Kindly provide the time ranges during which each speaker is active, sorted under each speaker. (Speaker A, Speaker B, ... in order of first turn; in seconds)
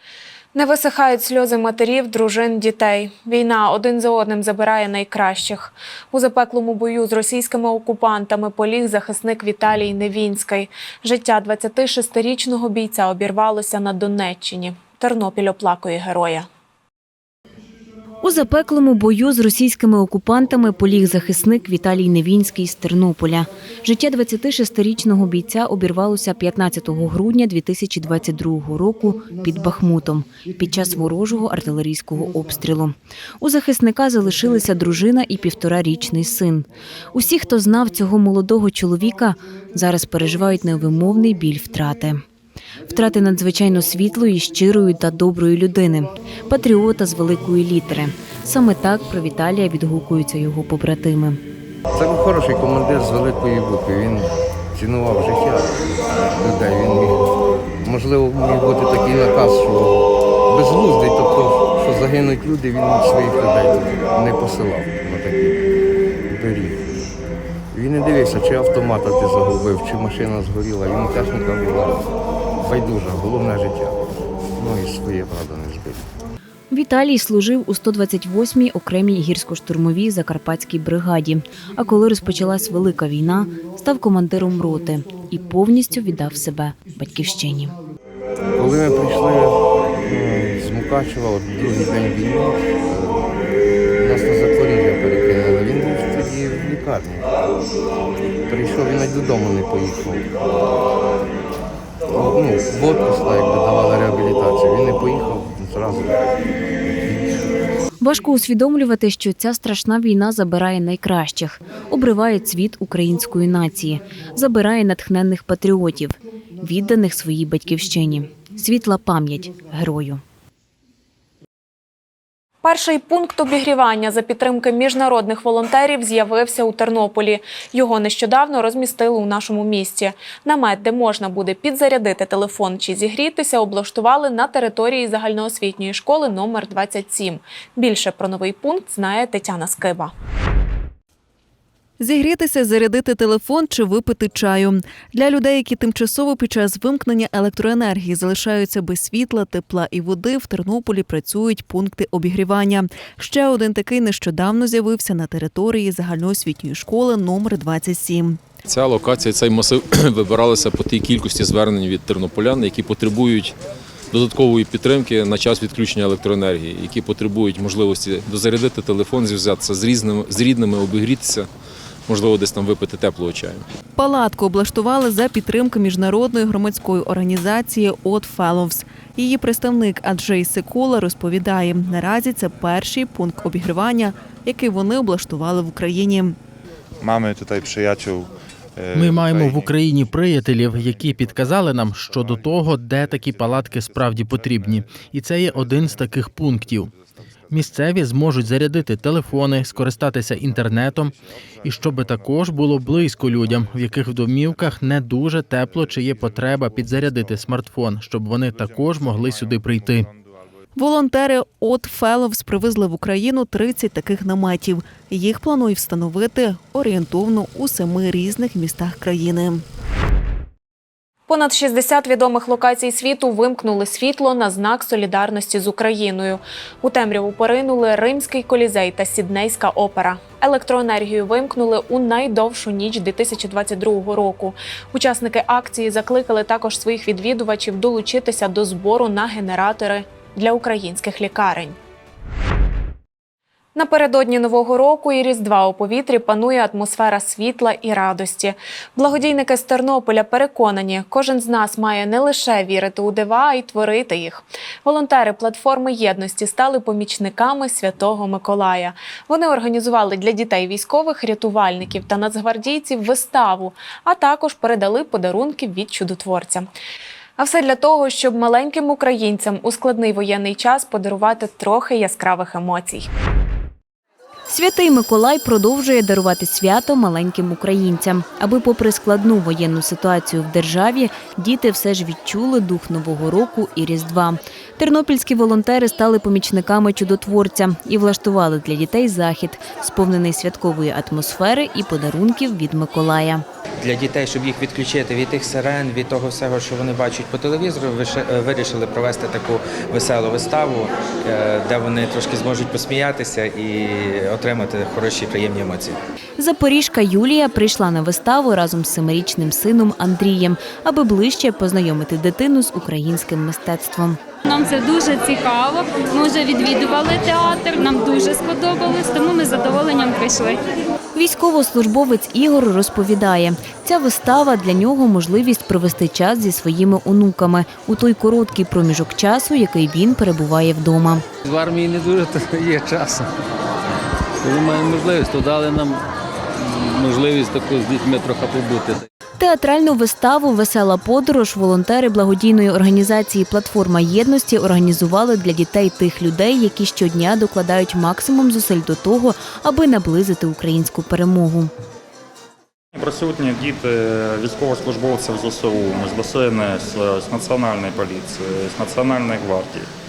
Speaker A: 0.5-16.5, 122.6-140.1, 221.3-241.8, 243.8-266.7, 267.4-273.1
Speaker B: 18.2-42.2, 42.9-51.4, 76.7-87.8, 108.0-120.2, 274.5-293.4, 306.4-314.2, 321.1-331.2, 339.4-351.7
Speaker C: 51.9-57.2, 57.8-65.7, 66.3-67.1, 67.7-76.1, 88.5-93.3, 94.0-97.4, 98.5-100.3, 102.1-107.4, 187.0-188.3, 188.8-189.7
Speaker D: 142.0-158.4, 174.0-186.4, 210.8-219.6
Speaker E: 158.7-163.6, 164.1-171.5, 172.1-173.6
Speaker F: 187.1-188.2, 188.8-190.9, 192.2-193.6, 195.4-196.8, 198.1-201.1, 201.9-206.6, 207.1-210.1, 331.5-333.3, 334.4-336.0, 336.7-339.0
Speaker G: 189.1-196.9, 197.5-201.1, 201.7-210.0
Speaker H: 293.9-305.9
Speaker I: 314.5-320.6
Speaker J: 352.9-359.9